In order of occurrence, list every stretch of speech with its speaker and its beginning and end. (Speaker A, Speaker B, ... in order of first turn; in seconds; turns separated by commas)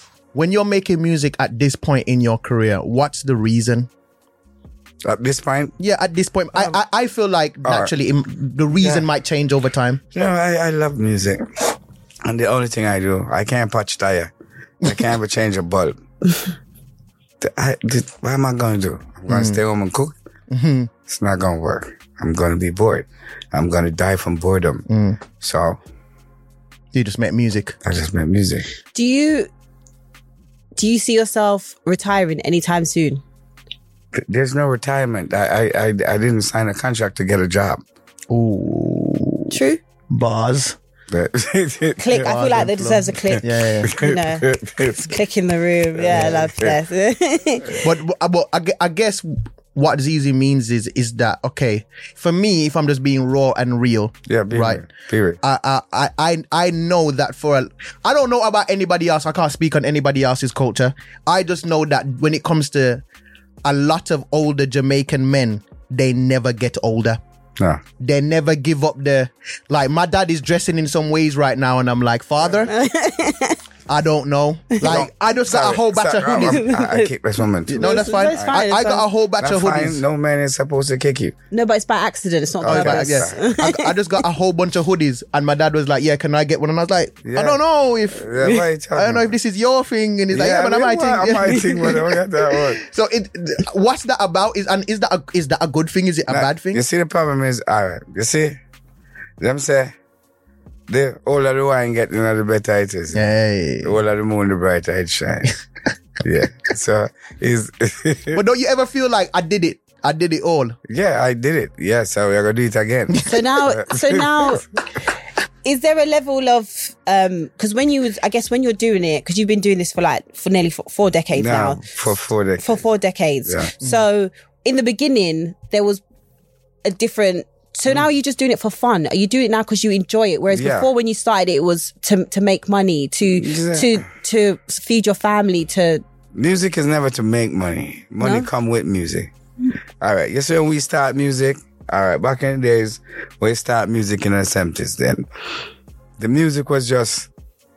Speaker A: 0.3-3.9, Speaker B: 5.0-5.8, Speaker A: 5.8-10.0, Speaker B: 6.5-6.8, Speaker B: 7.6-7.9, Speaker B: 8.8-9.1, Speaker B: 10.1-14.3, Speaker B: 14.8-15.9, Speaker B: 17.4-20.1, Speaker A: 19.3-19.6, Speaker A: 20.5-20.9, Speaker B: 21.1-24.8, Speaker A: 24.9-25.2, Speaker B: 25.4-25.8, Speaker A: 26.9-27.8, Speaker B: 27.8-28.7, Speaker C: 28.9-29.5, Speaker C: 30.8-33.2, Speaker B: 34.1-37.8, Speaker A: 38.3-39.5, Speaker C: 39.5-39.8, Speaker A: 40.1-40.8, Speaker B: 41.1-42.6, Speaker C: 42.0-47.8, Speaker A: 42.2-43.9, Speaker B: 43.3-45.1, Speaker B: 46.0-46.8, Speaker A: 47.8-54.8, Speaker B: 54.3-55.4, Speaker A: 55.4-63.0, Speaker A: 63.6-67.2, Speaker A: 68.0-72.7, Speaker C: 72.7-73.6, Speaker A: 73.9-76.6, Speaker B: 74.8-78.6, Speaker C: 76.4-77.1, Speaker A: 77.7-80.0, Speaker C: 77.8-79.1, Speaker B: 79.4-81.3, Speaker C: 81.5-83.9, Speaker B: 82.6-83.4, Speaker A: 82.6-96.8, Speaker B: 87.2-89.3, Speaker B: 90.3-92.8, Speaker B: 96.3-98.6, Speaker B: 99.4-99.9, Speaker B: 100.9-103.2, Speaker A: 103.1-103.9, Speaker B: 103.8-105.5, Speaker B: 106.2-108.4, Speaker A: 108.3-110.8, Speaker B: 110.9-114.5, Speaker C: 113.3-114.6, Speaker C: 115.6-121.8, Speaker B: 121.3-122.8, Speaker C: 122.6-126.0, Speaker B: 123.4-123.7, Speaker C: 126.8-136.0, Speaker B: 130.5-130.9, Speaker B: 133.2-134.0, Speaker B: 136.3-139.3, Speaker C: 138.2-138.5, Speaker B: 140.0-145.2, Speaker B: 146.2-147.3